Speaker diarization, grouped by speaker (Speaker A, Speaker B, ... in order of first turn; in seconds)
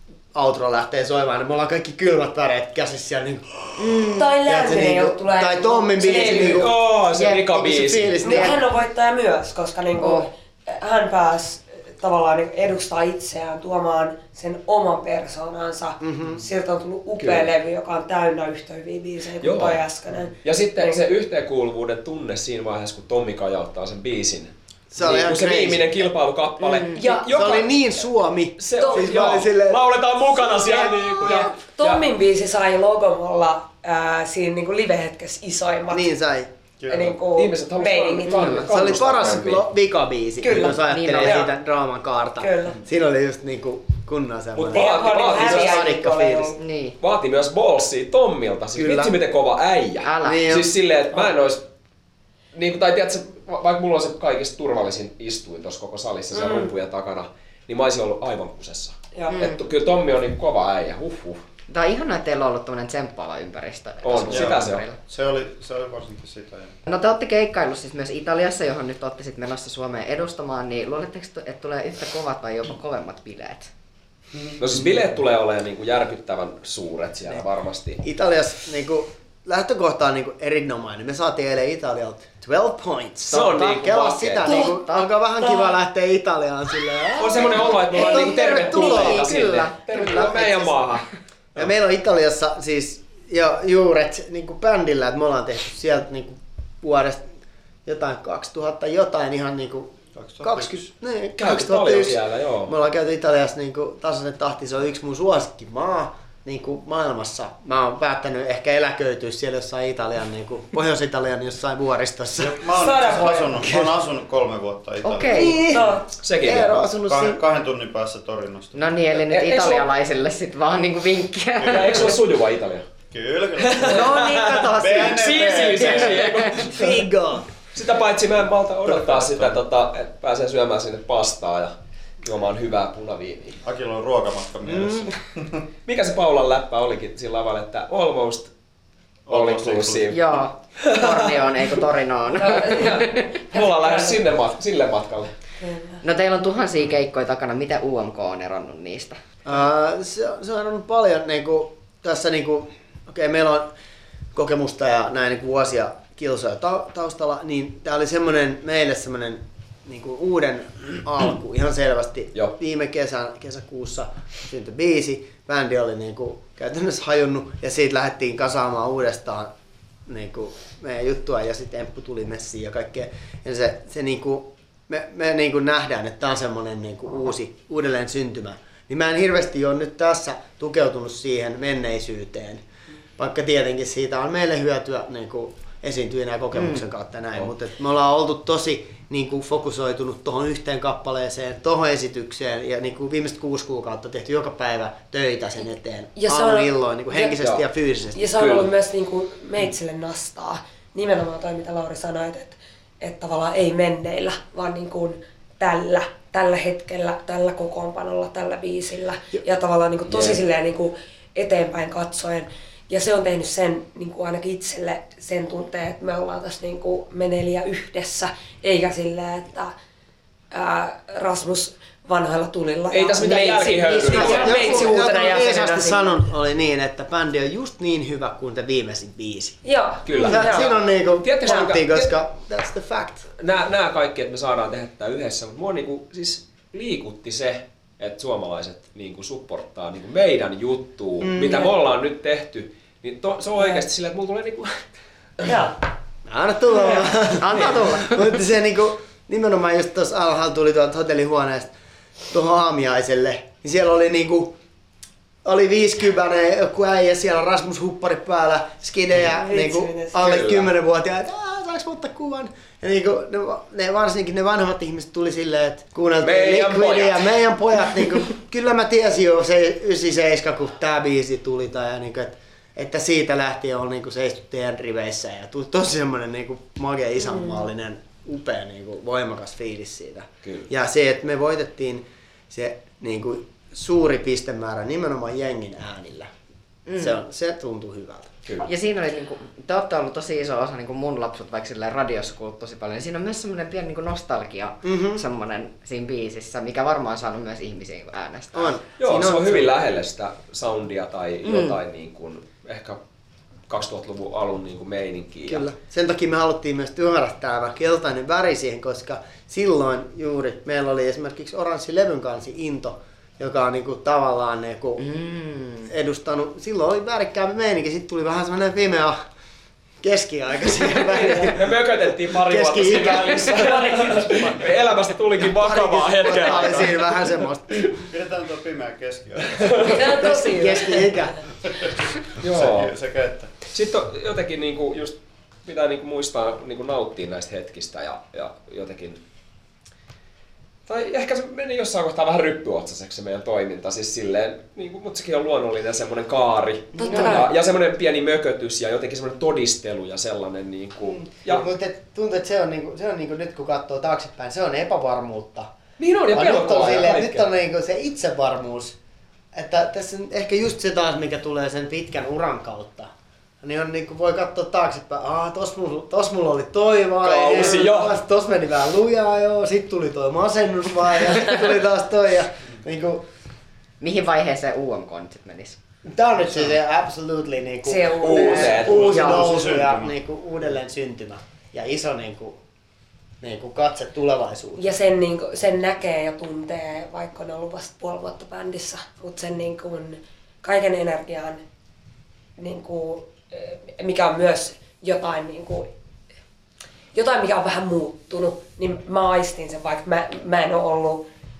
Speaker A: 0.3-8.6, 16.0-16.4, 24.9-26.0, 27.3-29.8, 35.9-36.5, 38.5-46.6, 48.7-49.2, 50.2-50.7, 78.0-89.2, 91.6-97.3, 97.8-113.9, 115.3-117.4, 126.6-127.5, 134.7-135.0, 149.4-153.7, 154.3-169.5, 170.1-182.6, 183.2-198.3, 223.8-233.3, 241.2-241.7, 246.3-251.7, 252.3-254.6, 255.4-286.3, 287.0-288.3, 294.8-295.2, 298.5-299.7, 305.5-315.0, 315.9-319.2, 320.0-324.3, 325.4-327.9, 329.9-331.4, 351.2-355.7, 356.3-358.9, 359.5-363.1, 363.6-373.2, 376.1-382.6, 383.4-384.9
Speaker B: 3.8-4.3, 8.2-8.5, 10.0-10.3, 26.7-27.0, 40.8-41.4, 46.6-46.9, 50.0-50.5, 59.3-59.6, 61.7-65.0, 66.9-73.7, 88.0-90.9, 115.0-115.6, 118.7-122.1, 123.8-126.7, 140.1-143.2, 146.0-149.2, 186.5-186.8, 247.4-248.3, 286.9-287.2, 288.6-298.8, 301.4-301.8, 315.0-315.9, 347.0-347.4, 374.0-375.8
Speaker C: 4.1-6.7, 8.2-21.0, 26.9-27.5, 28.8-29.5, 30.3-36.1, 36.9-38.9, 40.4-41.5, 42.4-42.8, 44.7-46.6, 56.3-56.7, 59.1-59.4, 84.4-84.7, 85.4-85.7, 112.7-113.6, 115.6-116.0, 142.3-144.2, 145.6-146.0, 196.1-197.3, 198.1-219.7, 220.5-226.2, 229.6-230.8, 243.6-243.8, 245.5-245.8, 246.8-247.0, 259.2-260.5, 277.2-277.7, 321.1-321.5, 323.0-324.6, 329.7-331.4, 346.9-347.5, 377.8-379.7, 384.8-391.6, 392.6-395.9, 397.1-401.2
Speaker D: 6.1-8.3, 17.2-17.5, 19.4-19.8, 20.4-28.0, 28.6-32.1, 37.3-39.7, 44.5-45.8, 47.0-51.6, 52.5-61.4, 64.0-64.8, 74.6-78.0, 83.2-84.5, 87.2-91.7, 101.4-102.7, 116.2-116.9, 119.3-119.8, 121.7-122.9, 123.6-127.1, 127.7-133.6, 135.8-138.5, 139.3-140.2, 140.8-141.4, 143.5-145.3, 198.3-198.7, 210.1-210.4, 222.9-224.9, 230.1-232.1, 233.4-244.8, 260.2-260.7, 266.2-267.4, 280.4-280.7, 299.0-303.0, 303.7-305.7, 321.3-327.3, 332.4-332.9, 333.7-339.2, 340.9-351.7, 356.0-357.5, 367.2-368.2, 378.2-379.6
Speaker E: 36.8-37.1, 64.3-66.8, 100.1-100.9, 112.4-115.4, 116.9-118.9, 121.6-122.2, 123.1-126.4, 128.8-129.6, 133.6-135.6, 139.3-140.2, 328.1-329.9, 331.6-333.5, 378.9-380.1